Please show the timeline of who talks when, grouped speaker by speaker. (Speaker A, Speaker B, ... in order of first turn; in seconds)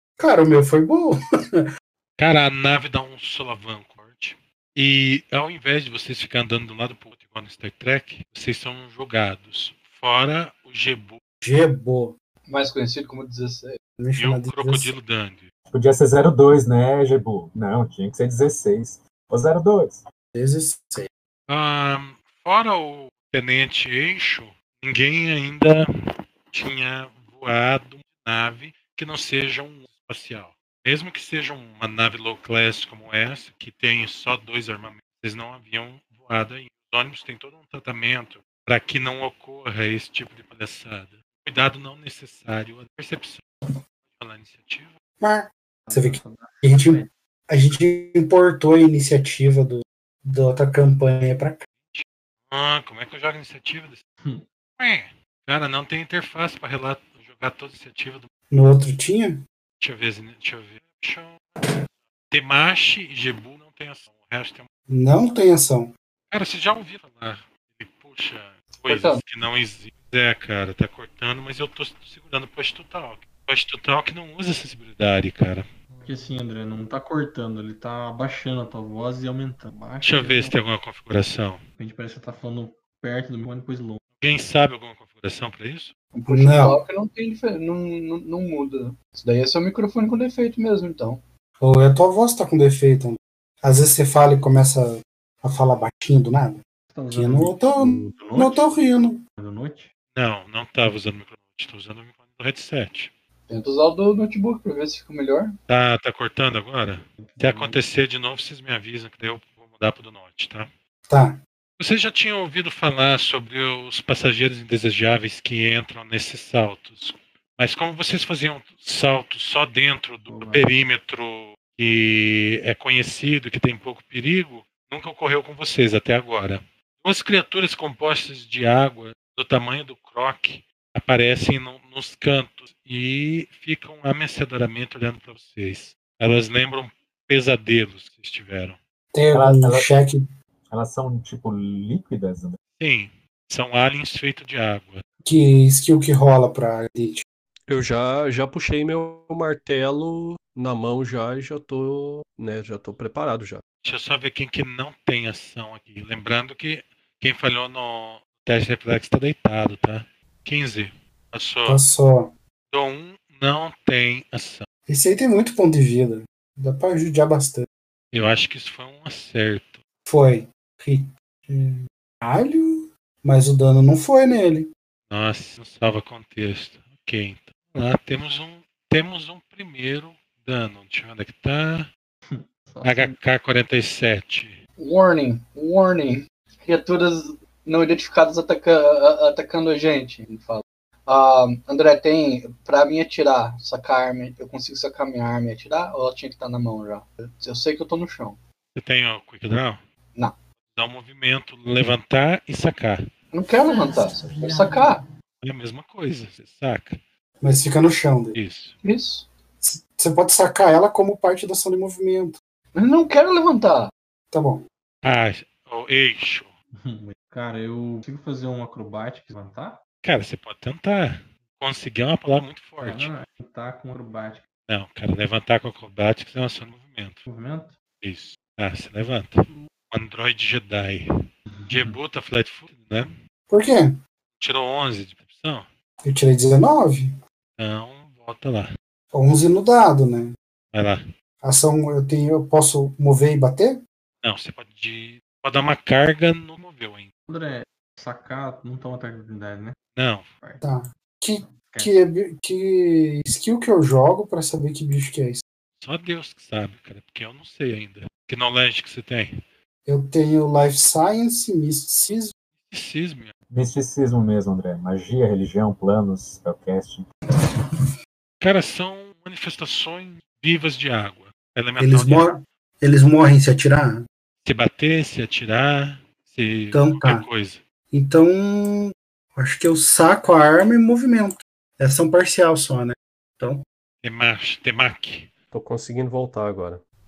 Speaker A: 0.2-1.6, 11.4-12.1, 14.0-14.9, 20.3-21.1, 45.2-51.6, 58.5-59.4, 64.9-65.9, 86.2-86.8, 91.6-96.6, 97.1-99.2, 111.1-111.4, 139.1-140.2, 145.2-147.2, 161.7-162.3, 164.9-167.7, 170.1-174.7, 207.4-208.3, 209.6-212.3, 214.3-214.6, 233.5-234.0, 236.0-237.1, 239.1-240.3, 241.4-243.8, 250.6-255.4, 259.9-262.3, 271.8-274.1, 276.7-277.2, 277.9-283.6
Speaker B: 2.2-11.2, 14.2-15.4, 21.5-25.9, 26.5-43.4, 44.1-44.9, 51.9-54.0, 54.8-58.3, 59.8-61.6, 62.3-64.7, 66.3-75.7, 80.0-81.6, 84.2-85.9, 100.1-103.1, 105.7-110.7, 111.8-138.8, 142.8-145.0, 153.8-161.8, 162.7-164.7, 168.1-169.8, 175.1-181.9, 182.8-184.6, 198.8-199.8, 200.7-203.0, 205.4-207.0, 208.3-208.8, 215.0-216.5, 220.0-223.1, 224.7-227.2, 228.0-231.1, 231.7-233.2, 234.4-235.7, 237.6-238.7, 240.7-241.0, 244.2-247.1, 249.9-250.3, 255.8-259.3, 262.7-263.3, 268.4-272.3, 274.4-277.6, 284.0-285.3
Speaker C: 12.5-13.8, 68.8-69.2, 86.2-91.2, 103.5-105.5, 184.8-198.4, 203.3-205.0, 208.8-209.3, 212.7-213.9
Speaker D: 15.7-20.0, 139.3-139.9, 140.7-142.6, 263.5-267.1
Speaker E: 45.9-47.1, 76.0-80.6, 81.8-84.0, 96.9-98.6, 99.4-99.9, 107.2-107.8, 120.3-120.7, 182.3-183.2, 216.8-219.8, 222.8-224.4, 227.2-227.7, 231.5-231.9, 247.3-249.8, 251.5-251.9
Speaker F: 147.7-153.6, 285.5-286.8